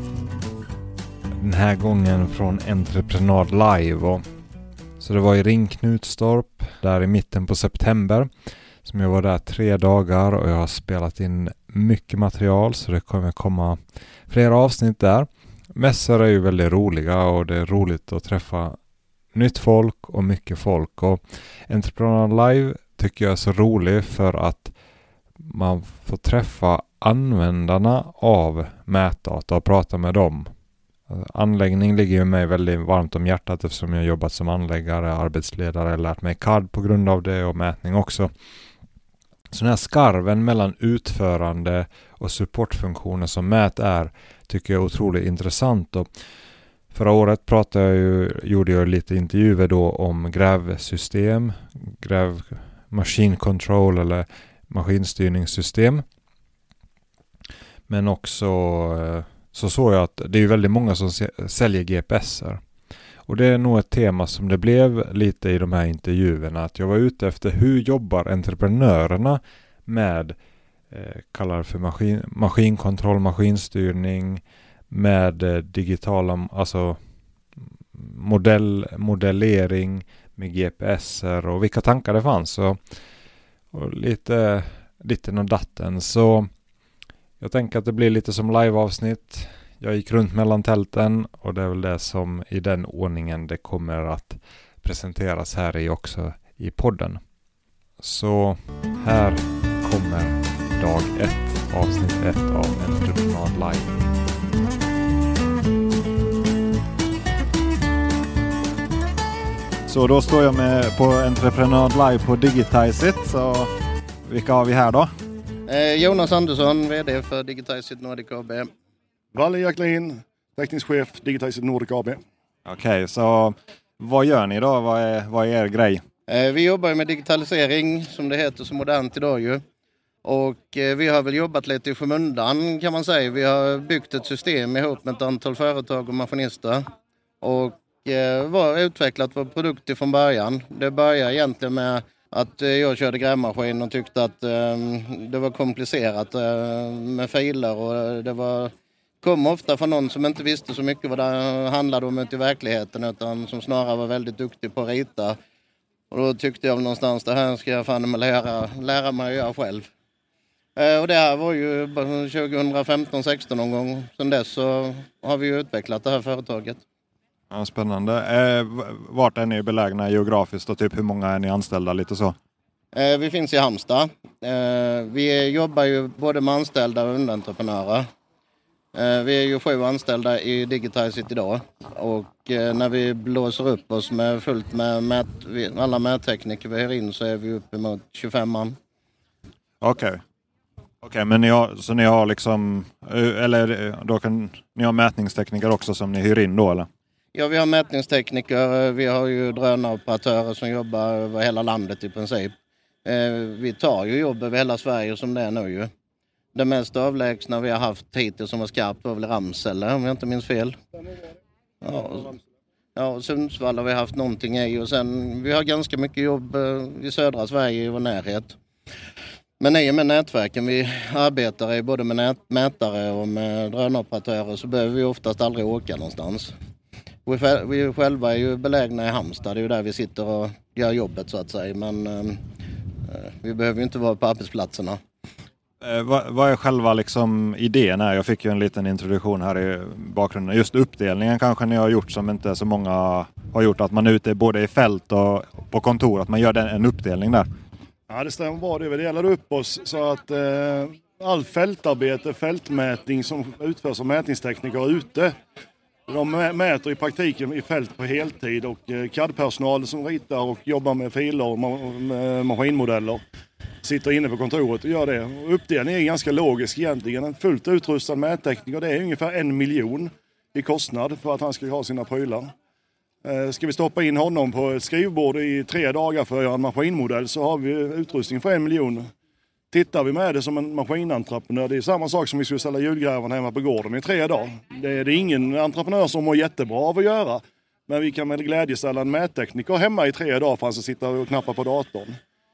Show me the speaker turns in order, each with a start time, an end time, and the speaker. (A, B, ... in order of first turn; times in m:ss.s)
0:01.4-0:04.2 A
0:05.0-0:08.3 A
0:08.8-0:18.8 A
0:19.3-0:24.7 A
0:25.4-0:30.5 A
0:31.1-0:38.3 A
0:39.5-0:46.1 A
0:46.9-0:56.0 A
0:57.9-1:02.6 A
1:03.3-1:10.4 A
1:10.9-1:17.0 A
1:18.0-1:22.8 A
1:23.7-1:26.5 A
1:27.4-1:37.2 A
1:38.0-1:44.0 A
1:49.9-1:53.7 A
1:54.2-1:55.1 A
1:55.7-1:58.7 B
1:59.3-2:02.2 C
2:02.7-2:06.0 A
2:06.3-2:09.6 B
2:10.2-2:16.9 B
2:17.4-2:35.4 B
2:36.1-2:39.9 B
2:40.8-2:46.8 B
2:47.5-2:52.4 A
2:52.9-2:58.1 B
2:58.9-3:08.8 B
3:09.8-3:10.2 A
3:11.0-3:16.9 A
3:17.3-3:22.5 B
3:23.0-3:25.9 B
3:26.5-3:30.8 B
3:31.8-3:32.4 B
3:33.0-3:38.6 B
3:39.6-3:46.5 B
3:47.3-3:52.4 B
3:53.0-3:55.0 B
3:55.8-4:07.5 A
4:08.1-4:15.4 C
4:16.1-4:23.2 C
4:23.8-4:32.5 C
4:33.2-4:39.1 C
4:39.7-4:52.2 C